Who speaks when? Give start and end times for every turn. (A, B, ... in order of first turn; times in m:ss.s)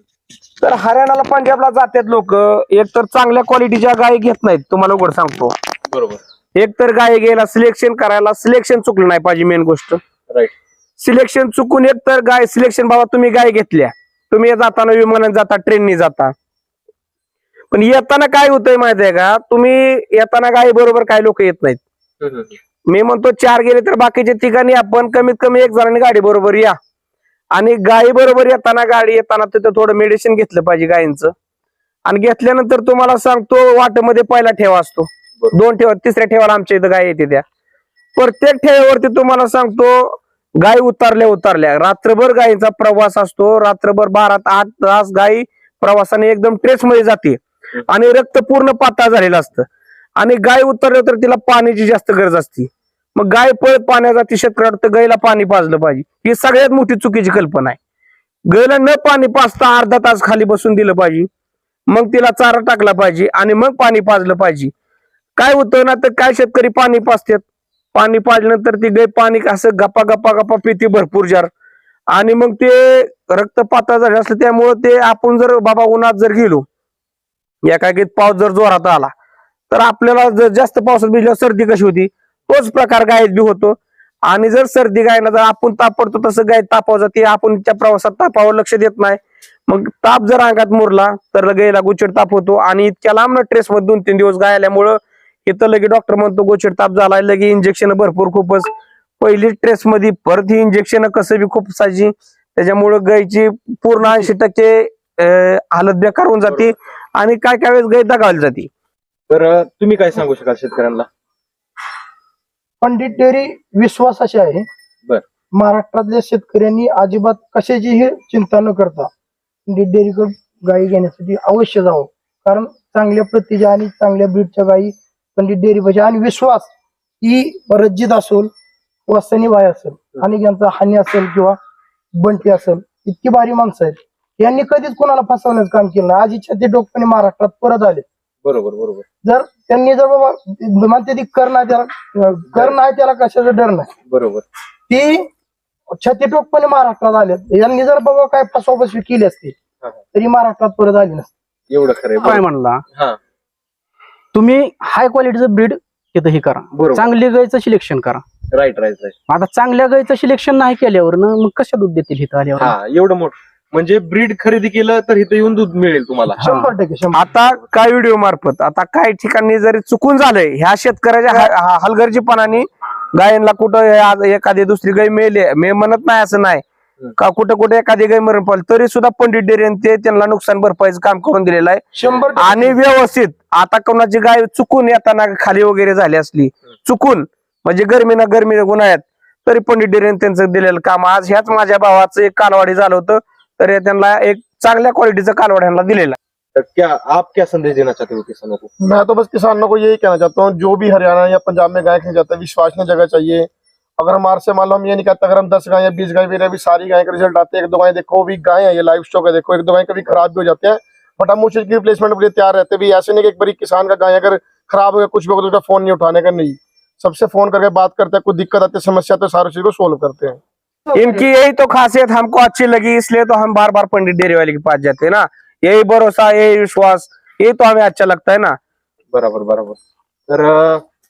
0:00.6-0:05.5 A
0:05.9-0:06.2 B
0:06.6-0:10.0 A
0:11.0-0:16.3 A
0:17.7-0:21.8 A
0:22.2-0:22.6 B
0:22.9-0:26.8 A
0:27.5-0:31.3 A
0:32.1-0:37.4 A
0:38.2-0:49.7 A
0:50.2-0:57.8 A
0:58.5-1:01.3 A
1:01.9-1:04.7 A
1:05.4-1:11.5 A
1:12.1-1:16.6 A
1:17.6-1:19.1 A
1:19.7-1:38.7 A
1:39.2-1:48.7 A
1:49.3-1:51.1 B
1:52.8-1:54.7 C
1:55.5-1:59.1 C
1:59.7-2:06.7 C
2:07.2-2:08.5 C
2:09.1-2:11.6 C
2:12.2-2:18.0 C
2:18.4-2:19.0 B
2:19.2-2:23.9 C
2:24.1-2:24.4 B
2:24.9-2:25.3 C
2:26.0-2:29.6 C
2:30.1-2:31.3 C
2:31.7-2:32.4 B
2:32.2-2:32.8 D
2:34.3-2:38.2 D
2:36.7-2:37.1 B
2:38.5-2:39.2 B
2:39.3-2:42.8 D
2:42.6-2:46.7 B
2:46.4-2:47.3 C
2:47.1-2:56.6 A
2:57.2-3:01.8 A
3:02.0-3:02.8 C
3:02.4-3:16.2 A
3:16.6-3:18.7 B
3:18.8-3:40.4 E
3:41.0-3:48.6 A
3:49.1-3:50.8 B